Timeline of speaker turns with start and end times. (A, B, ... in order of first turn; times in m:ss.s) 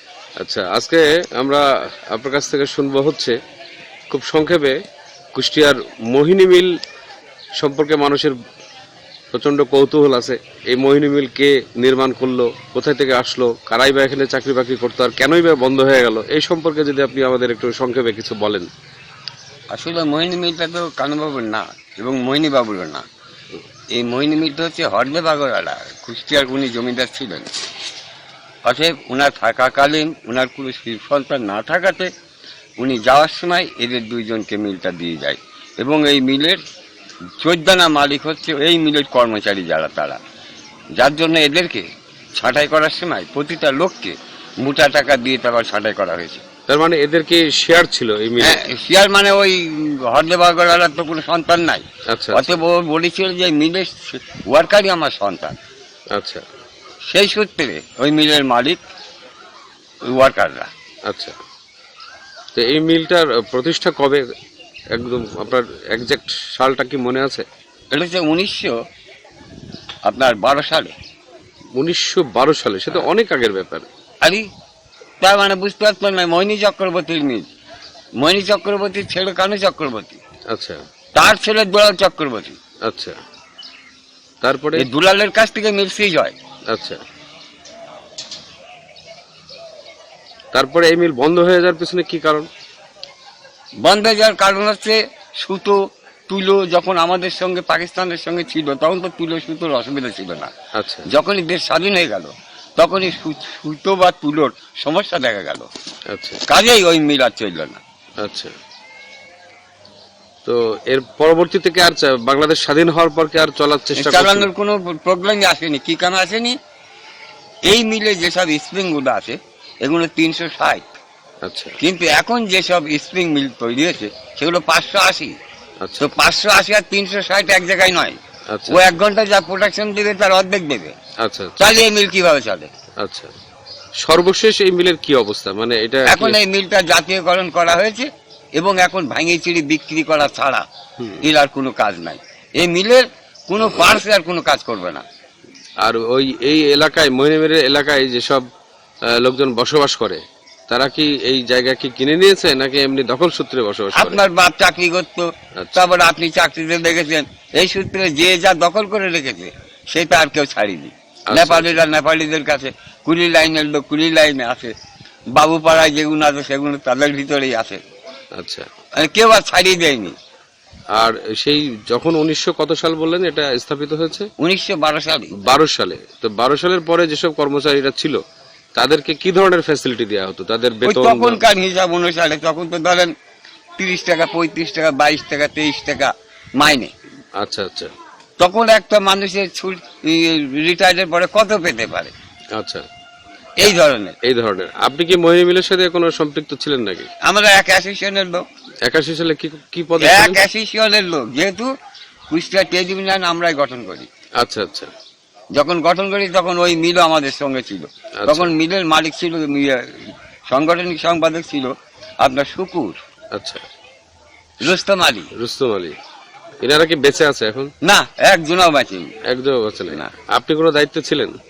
0:00.4-0:03.4 A
0:04.1-0:04.8 A
0:05.3-0:06.7 A
0:07.6-0:08.4 A
0:09.3-0:18.7 A
0:19.7-0:23.0 B
0:23.9-0:27.5 B
0:28.6-0:32.1 B
0:32.8-0:36.6 B
0:37.4-0:40.2 B
0:41.0-0:46.4 B
0:46.7-0:48.6 A
0:48.4-0:55.6 B
0:52.1-0:52.6 A
0:56.1-0:56.4 A
0:57.1-0:58.8 B
1:00.0-1:00.7 B
1:01.0-1:01.4 A
1:02.5-1:04.2 A
1:04.9-1:07.4 A
1:07.9-1:08.8 B
1:10.0-1:10.9 B
1:11.8-1:13.9 A
1:14.2-1:14.5 B
1:15.2-1:17.5 B
1:18.2-1:20.2 B
1:20.5-1:20.8 A
1:21.1-1:22.6 B
1:22.8-1:23.2 A
1:24.4-1:24.8 A
1:24.8-1:26.3 B
1:26.7-1:27.0 A
1:30.5-1:32.5 A
1:33.8-1:40.5 B
1:40.7-1:41.1 A
1:41.0-1:45.7 B
1:46.1-1:46.4 A
1:46.5-1:47.8 B
1:48.2-1:48.5 A
1:50.4-1:54.5 A
1:54.0-1:56.6 B
1:57.6-2:00.9 B
2:01.4-2:01.8 A
2:01.8-2:05.4 B
2:05.8-2:06.1 A
2:06.0-2:11.0 B
2:08.5-2:08.9 A
2:11.2-2:11.8 A
2:11.6-2:12.7 B
2:13.0-2:13.3 A
2:14.0-2:16.4 A
2:16.1-2:20.6 B
2:21.2-2:25.0 B
2:25.8-2:28.4 A
2:29.1-2:34.2 A
2:33.9-2:44.7 B
2:35.6-2:35.8 A
2:41.3-2:41.8 A
2:45.3-2:47.8 B
2:48.3-2:48.7 A
2:49.0-2:50.2 B
2:51.0-2:54.3 A
2:54.4-2:55.3 B
2:55.4-2:58.2 A
2:58.8-3:01.4 A
3:00.8-3:03.1 B
3:03.8-3:06.9 B
3:07.4-3:07.9 A
3:08.4-3:12.1 B
3:12.6-3:12.8 A
3:13.6-3:14.2 B
3:14.2-3:17.1 A
3:17.2-3:18.4 B
3:18.8-3:20.4 A
3:20.0-3:21.7 B
3:22.3-3:24.1 B
3:24.4-3:24.9 A
3:25.5-3:33.0 B
3:28.2-3:28.5 A
3:33.3-3:33.6 A
3:34.6-3:35.3 B
3:35.3-3:36.0 A
3:36.6-3:37.7 A
3:37.8-3:39.1 B
3:39.3-3:41.4 A